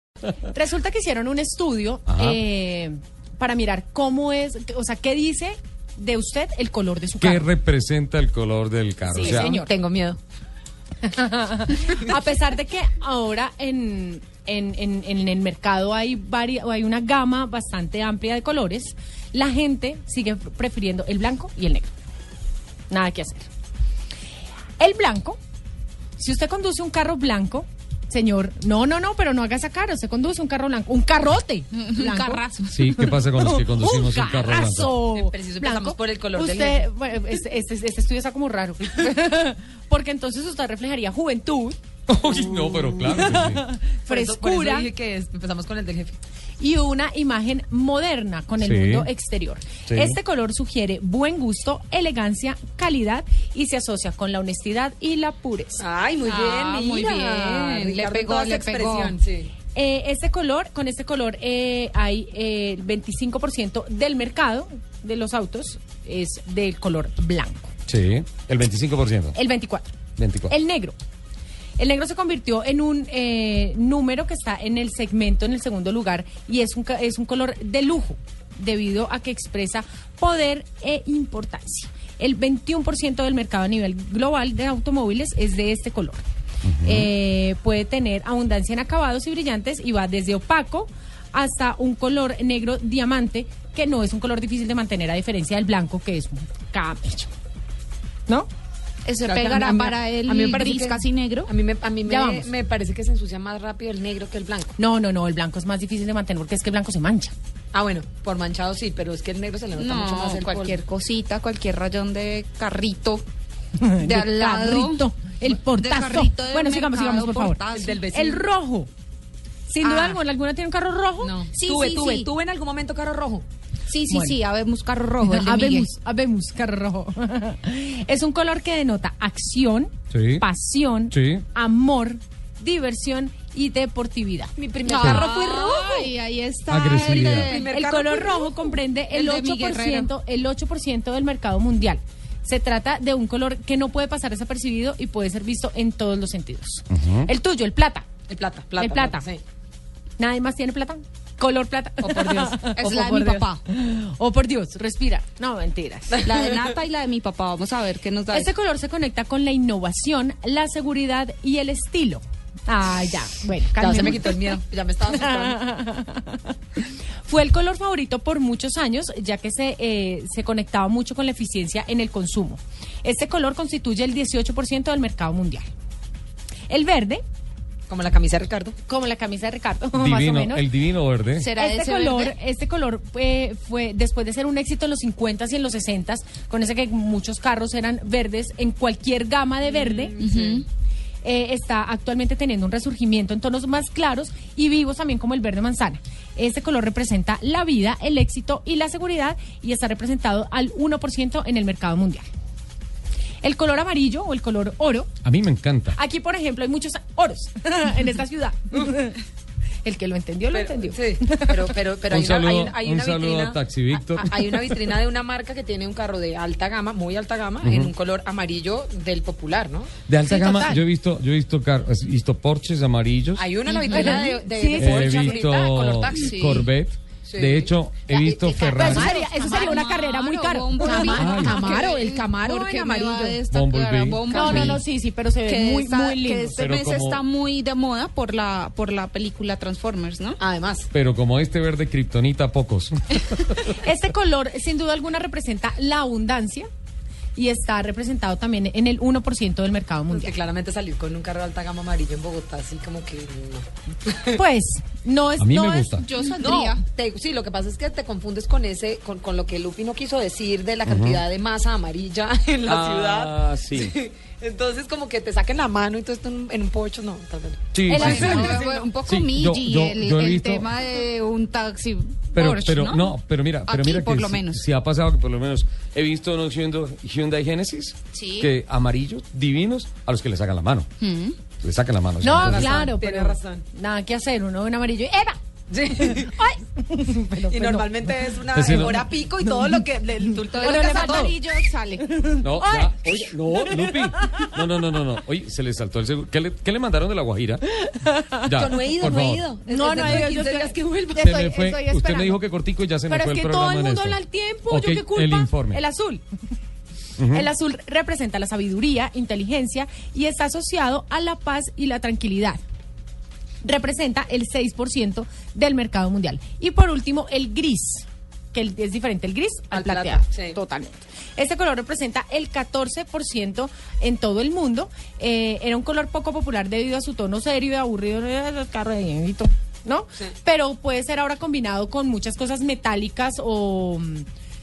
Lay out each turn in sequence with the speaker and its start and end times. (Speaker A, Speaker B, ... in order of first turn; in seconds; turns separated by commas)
Speaker A: 0.4-7.5, Speaker B: 2.1-2.4, Speaker B: 7.2-9.5, Speaker A: 9.1-9.7, Speaker C: 9.2-10.2, Speaker A: 11.0-21.9, Speaker A: 22.9-23.5, Speaker A: 24.8-25.4, Speaker A: 26.2-41.8, Speaker D: 31.8-32.7, Speaker B: 32.7-34.9, Speaker C: 35.1-36.8, Speaker B: 42.1-43.7, Speaker A: 42.9-44.9, Speaker C: 44.0-46.2, Speaker A: 46.6-55.8, Speaker B: 48.6-49.1, Speaker B: 49.9-50.2, Speaker C: 55.8-59.5, Speaker D: 56.2-59.1, Speaker A: 59.7-67.7, Speaker B: 67.9-69.4, Speaker A: 69.3-69.9, Speaker B: 70.2-70.5, Speaker A: 70.5-71.0, Speaker A: 71.8-86.2, Speaker B: 86.7-87.1, Speaker A: 86.8-97.3, Speaker D: 99.0-101.5, Speaker C: 99.3-104.7, Speaker A: 102.0-102.5, Speaker A: 104.8-107.3, Speaker C: 107.7-110.8, Speaker D: 109.8-113.2, Speaker A: 113.8-118.9, Speaker D: 114.0-118.0, Speaker C: 117.8-118.4, Speaker A: 119.7-121.4, Speaker D: 119.8-120.2, Speaker C: 121.2-123.5, Speaker D: 121.5-122.3, Speaker D: 123.9-125.9, Speaker A: 124.1-124.4, Speaker A: 125.2-136.1, Speaker B: 130.1-130.4, Speaker B: 131.1-131.4, Speaker C: 134.6-135.3, Speaker D: 134.8-137.7, Speaker B: 135.0-135.3, Speaker B: 136.7-137.5, Speaker C: 136.9-138.5, Speaker A: 137.5-148.1, Speaker D: 139.1-140.1, Speaker B: 146.9-147.3, Speaker C: 148.3-149.4, Speaker A: 148.8-149.2, Speaker A: 150.2-156.2, Speaker D: 152.0-153.6, Speaker D: 156.2-158.5, Speaker A: 158.3-164.5, Speaker C: 163.8-165.6, Speaker A: 165.1-166.6, Speaker A: 167.2-175.7, Speaker A: 176.7-177.2, Speaker C: 177.9-178.7, Speaker A: 178.9-180.6, Speaker B: 179.9-181.5, Speaker D: 181.4-182.3, Speaker A: 181.6-190.2, Speaker D: 190.0-190.6, Speaker C: 190.2-190.6, Speaker A: 191.2-202.2, Speaker A: 203.4-205.1, Speaker B: 205.2-206.0, Speaker A: 205.9-209.2, Speaker A: 209.8-211.6, Speaker C: 210.5-219.9, Speaker B: 212.1-214.8, Speaker B: 217.6-217.9, Speaker B: 220.1-223.4, Speaker A: 220.2-220.8, Speaker C: 223.4-226.6, Speaker D: 223.7-224.2, Speaker A: 223.8-225.4, Speaker B: 224.7-229.2, Speaker D: 226.1-226.7, Speaker C: 227.3-229.8, Speaker A: 228.8-232.0, Speaker D: 228.8-234.8, Speaker C: 230.8-233.4, Speaker B: 231.1-231.6, Speaker B: 233.5-234.8, Speaker A: 234.3-236.6, Speaker D: 235.4-240.4, Speaker B: 236.6-237.2, Speaker C: 240.4-240.9, Speaker B: 240.9-243.7, Speaker A: 243.7-246.7, Speaker A: 247.3-250.3, Speaker C: 250.1-254.4, Speaker A: 254.3-256.8, Speaker B: 255.4-256.1, Speaker D: 256.0-256.8, Speaker C: 256.4-268.9, Speaker B: 260.8-261.2, Speaker B: 262.6-263.9, Speaker B: 267.7-270.7, Speaker D: 267.9-273.1, Speaker A: 267.9-268.6, Speaker B: 272.3-280.9, Speaker D: 273.7-274.6, Speaker D: 278.1-278.5, Speaker D: 281.0-281.4, Speaker B: 281.6-282.9, Speaker A: 282.2-285.4, Speaker C: 282.3-283.6, Speaker C: 285.7-286.3, Speaker A: 286.0-287.9, Speaker C: 287.5-291.3, Speaker B: 288.5-289.0, Speaker A: 289.4-289.8, Speaker D: 290.5-292.1, Speaker A: 290.6-291.4, Speaker A: 292.0-292.9, Speaker B: 292.4-299.5, Speaker A: 293.5-294.6, Speaker A: 297.8-298.5, Speaker C: 298.6-300.7, Speaker A: 299.7-302.4, Speaker B: 301.1-305.8, Speaker A: 303.1-306.2, Speaker B: 307.2-307.5, Speaker A: 307.3-312.6, Speaker A: 313.6-334.2, Speaker C: 319.7-320.6